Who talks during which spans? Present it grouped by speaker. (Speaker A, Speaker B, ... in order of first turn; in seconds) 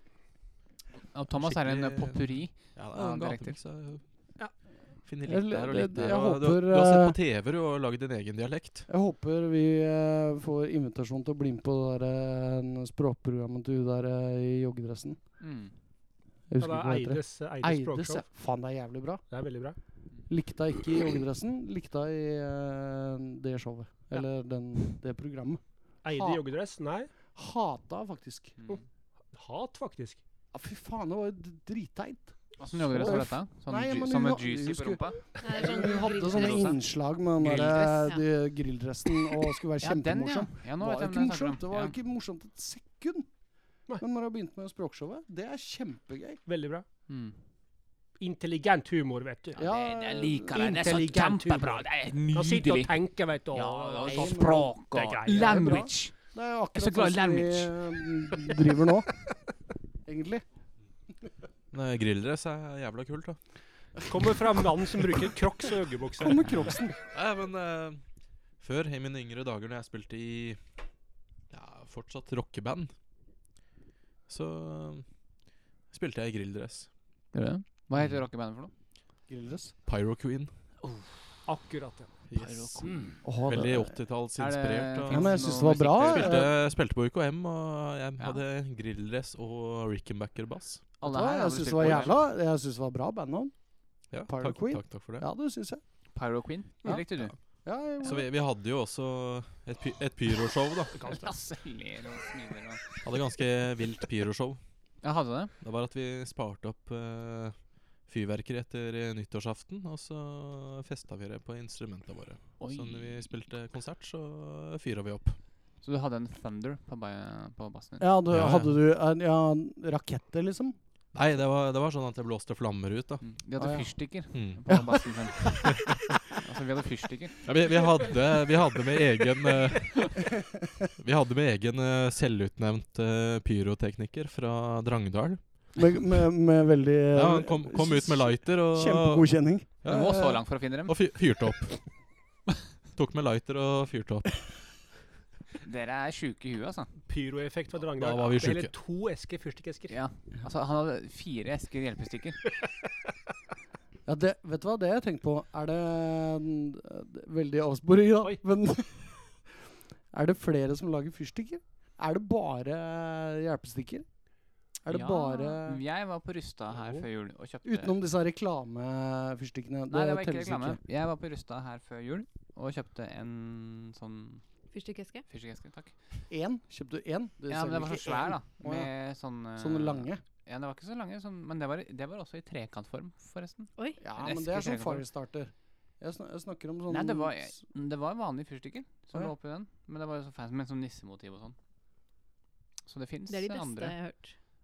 Speaker A: 1.1-3.6, 15.4-15.8, 32.6-36.8, 37.4-38.2, 39.8-42.0, 47.1-47.4, 49.5-53.0, 53.5-56.2, 56.7-58.4, 77.3-78.7, 82.3-83.2, 84.4-86.5, 91.0-92.2, 96.1-97.3, 101.0-103.0, 105.0-105.5, 112.6-113.3, 115.8-118.1, 123.2-125.8, 126.3-127.4, 139.8-140.9, 145.6-146.9, 149.9-152.4, 164.9-167.9, 169.9-174.4, 175.3-175.9, 177.5-185.1, 186.9-191.6, 192.9-194.0
Speaker B: 1.4-4.1, 5.0-8.9, 61.7-63.4, 67.1-68.0, 68.6-70.6, 71.5-72.9, 74.3-75.1, 75.9-76.9, 78.0-78.2, 79.9-80.5, 82.3-82.9, 83.4-90.9, 94.1-95.3, 98.0-101.0, 103.0-104.6, 105.6-115.4, 118.3-118.8, 121.1-123.3, 124.3-124.8, 125.6-126.2, 127.4-130.4, 131.0-135.8, 137.1-141.9, 142.9-144.6, 147.9-148.7
Speaker C: 5.3-7.2, 8.9-15.2, 16.5-19.2, 20.3-25.6, 26.1-26.4, 27.4-28.6, 30.5-43.3, 44.0-46.4, 49.6-51.4, 54.0-54.7, 55.3-59.1, 60.0-60.5, 66.2-67.0, 79.3-79.7, 83.2-84.0, 85.1-86.5, 91.0-93.5, 94.3-95.8, 96.8-98.2, 118.0-120.8, 123.6-123.9, 130.4-130.9, 135.8-139.8, 154.1-164.1, 164.7-165.8, 167.6-170.8, 176.3-178.9, 179.6-180.2, 184.0-187.5
Speaker D: 16.6-18.2, 19.3-19.8, 26.0-27.1, 29.3-30.2, 46.5-46.9, 48.2-49.6, 50.5-55.9, 64.1-66.8, 81.5-82.1, 101.0-101.3, 147.1-150.0, 166.8-167.1
Speaker E: 35.4-36.7, 174.7-175.2, 193.3-194.4